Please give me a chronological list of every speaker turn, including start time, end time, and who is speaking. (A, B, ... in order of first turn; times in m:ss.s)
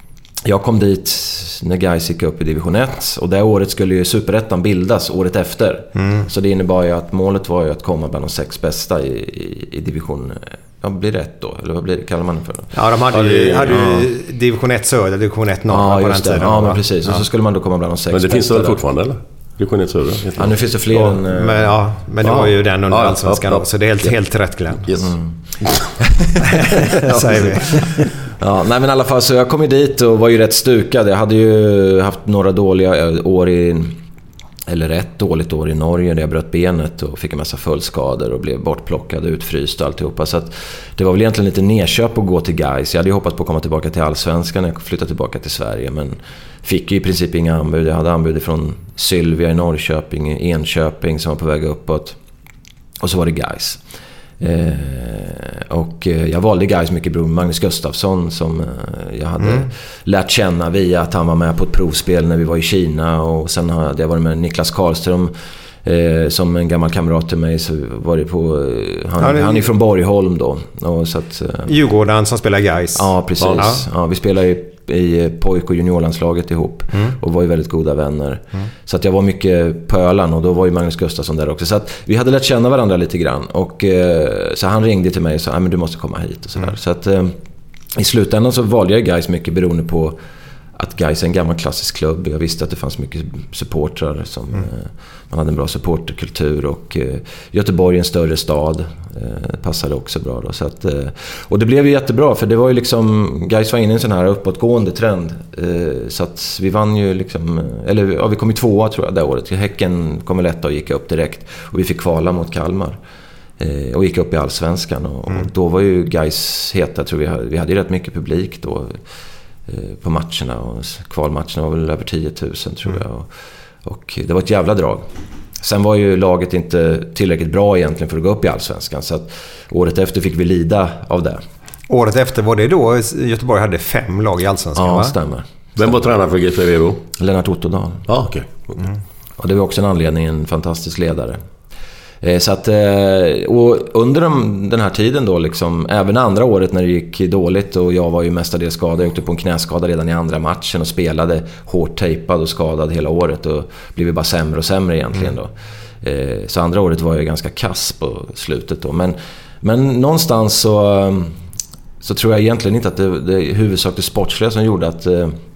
0:00.4-0:12.8 A
0:06.0-0:06.3 B
0:12.7-0:17.2 B
0:13.1-0:13.6 C
0:13.4-0:14.1 A
0:15.7-0:18.8 A
0:18.1-0:20.6 C
0:20.4-0:22.5 A
0:21.0-0:24.9 B
0:22.9-0:23.6 C
0:24.9-0:25.8 C
0:26.0-0:34.0 A
0:26.4-0:28.1 B
0:34.7-0:52.2 A
0:53.0-0:53.8 A
0:54.4-1:05.3 A
0:59.4-0:59.7 B
1:05.8-1:11.7 A
1:09.2-1:09.6 B
1:11.7-1:13.8 B
1:13.0-1:27.4 A
1:28.0-1:30.2 A
1:30.8-1:53.0 A
1:53.6-1:59.0 A
1:59.7-2:03.3 A
2:03.8-2:05.1 A
2:05.6-2:11.4 A
2:11.9-2:15.1 B
2:14.8-2:15.5 A
2:15.8-2:17.0 C
2:17.2-2:18.1 A
2:18.1-2:18.6 C
2:19.4-2:21.4 A
2:22.2-2:41.4 A
2:42.0-2:45.4 A